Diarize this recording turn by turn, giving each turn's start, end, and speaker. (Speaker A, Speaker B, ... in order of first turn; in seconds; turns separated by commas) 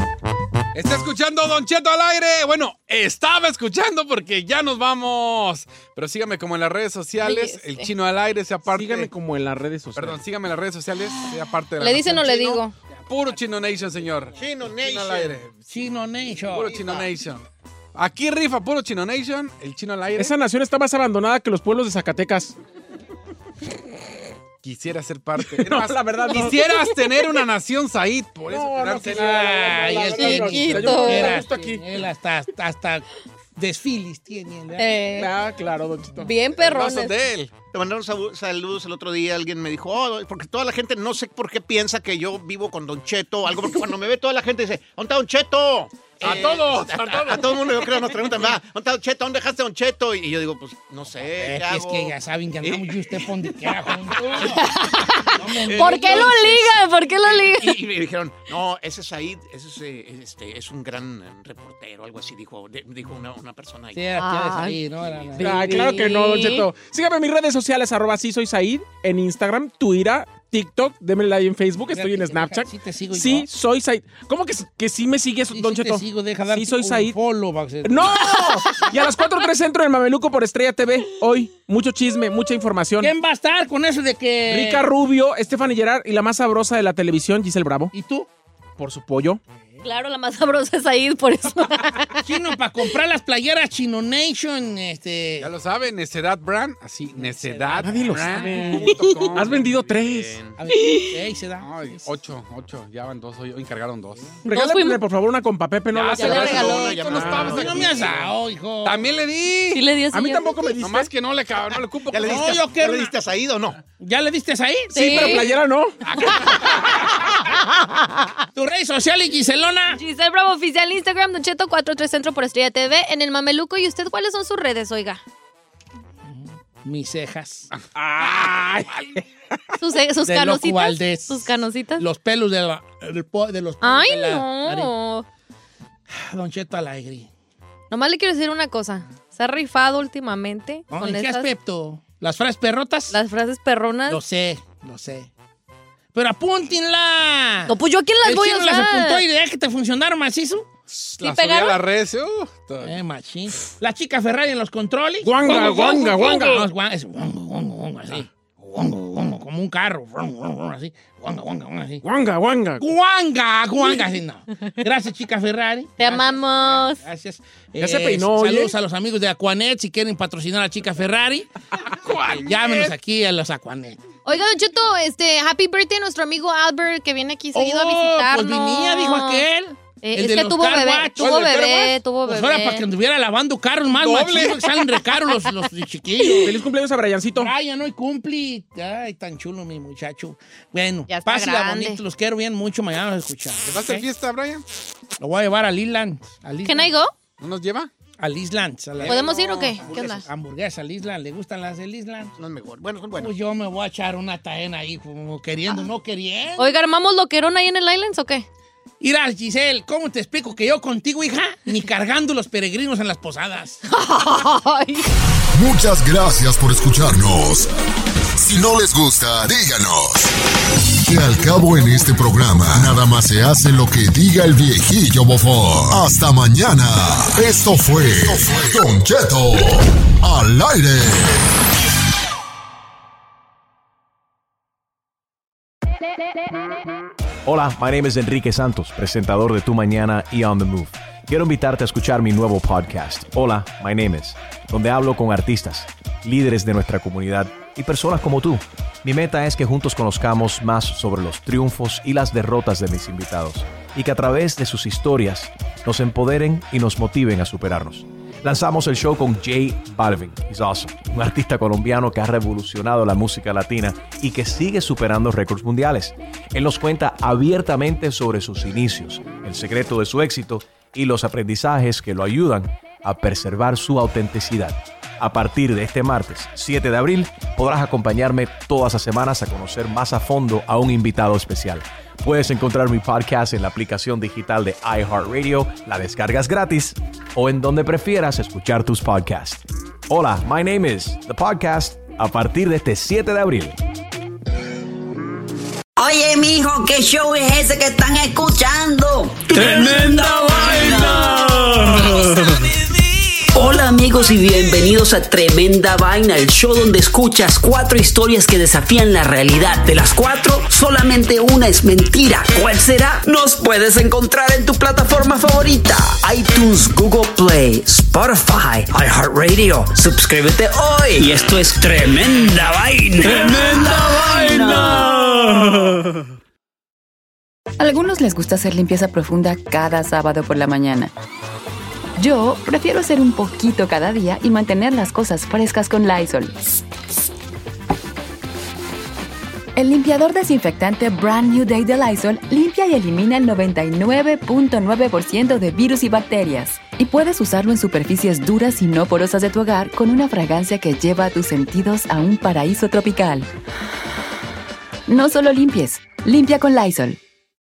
Speaker A: 0.7-9.1, Speaker B: 7.2-7.9, Speaker C: 8.7-10.2, Speaker A: 10.0-15.6, Speaker B: 11.8-12.7, Speaker D: 14.3-15.4, Speaker E: 15.7-16.8, Speaker A: 16.5-20.4, Speaker D: 16.7-17.1, Speaker C: 20.2-22.6, Speaker A: 24.6-30.1, Speaker C: 25.4-26.6, Speaker C: 28.5-31.8, Speaker E: 29.1-35.3, Speaker B: 30.2-31.4, Speaker B: 34.8-35.3, Speaker C: 35.2-36.3, Speaker B: 36.2-37.1, Speaker A: 36.6-37.5, Speaker D: 37.7-52.1, Speaker E: 46.2-47.2, Speaker A: 46.2-48.1, Speaker E: 51.4-54.7, Speaker B: 54.5-57.9, Speaker E: 55.4-56.6, Speaker D: 55.8-56.7, Speaker A: 55.8-56.2, Speaker D: 57.2-64.1, Speaker E: 63.9-65.8, Speaker B: 64.2-64.8, Speaker B: 65.4-66.7, Speaker C: 65.4-77.2, Speaker E: 71.9-73.5, Speaker E: 75.5-78.8, Speaker C: 77.8-83.1, Speaker E: 83.0-84.9, Speaker C: 84.5-87.9, Speaker E: 87.9-88.3, Speaker C: 88.8-89.4, Speaker B: 89.8-92.3, Speaker E: 92.2-95.5, Speaker A: 95.4-99.8, Speaker E: 97.1-98.9, Speaker C: 97.8-100.3, Speaker D: 99.5-100.6, Speaker E: 100.6-102.0, Speaker B: 100.7-101.2, Speaker A: 101.6-104.4, Speaker C: 104.5-106.3, Speaker B: 104.5-105.0, Speaker E: 106.0-109.0, Speaker D: 106.1-108.2, Speaker A: 106.1-108.3, Speaker B: 106.1-107.0, Speaker A: 108.8-109.9, Speaker B: 109.7-110.6, Speaker C: 110.1-111.1, Speaker A: 110.8-112.6, Speaker D: 112.1-113.8, Speaker E: 112.2-113.1, Speaker E: 114.0-115.5, Speaker B: 114.9-115.5, Speaker C: 115.0-116.0, Speaker A: 116.2-116.5, Speaker B: 116.3-116.6, Speaker E: 118.5-120.0, Speaker B: 119.9-125.2, Speaker E: 126.2-127.7, Speaker C: 128.0-128.9, Speaker B: 129.8-132.0, Speaker E: 130.2-134.9, Speaker B: 133.8-135.3, Speaker E: 136.1-137.3, Speaker B: 137.9-141.5, Speaker E: 140.9-143.2, Speaker B: 143.1-144.2, Speaker E: 144.1-145.3, Speaker E: 146.1-150.7, Speaker B: 147.7-149.3, Speaker A: 150.9-153.0, Speaker B: 151.2-151.8, Speaker E: 152.8-162.0, Speaker C: 155.2-156.7, Speaker C: 162.0-162.8, Speaker E: 162.8-171.5, Speaker B: 166.0-167.0, Speaker C: 167.8-168.7, Speaker A: 171.9-172.9, Speaker E: 172.4-174.0, Speaker B: 174.3-179.5, Speaker E: 177.5-181.5, Speaker B: 180.0-182.9, Speaker A: 181.2-182.0, Speaker E: 182.2-186.6, Speaker A: 183.9-184.8, Speaker C: 186.4-187.5, Speaker E: 187.4-194.1, Speaker B: 191.1-192.0, Speaker A: 193.7-194.6, Speaker E: 195.2-196.9, Speaker B: 196.7-197.1, Speaker A: 197.4-197.9, Speaker E: 198.2-202.3, Speaker B: 199.0-200.2, Speaker D: 202.4-203.3, Speaker E: 203.2-206.7, Speaker B: 206.6-208.5, Speaker E: 209.0-213.8, Speaker B: 213.9-215.1, Speaker F: 215.5-217.7, Speaker F: 218.4-220.3, Speaker F: 221.0-231.5, Speaker G: 237.4-293.8, Speaker H: 296.0-302.7, Speaker H: 303.5-325.8, Speaker I: 327.8-331.1, Speaker I: 332.2-336.7, Speaker I: 339.8-353.5, Speaker I: 355.1-357.2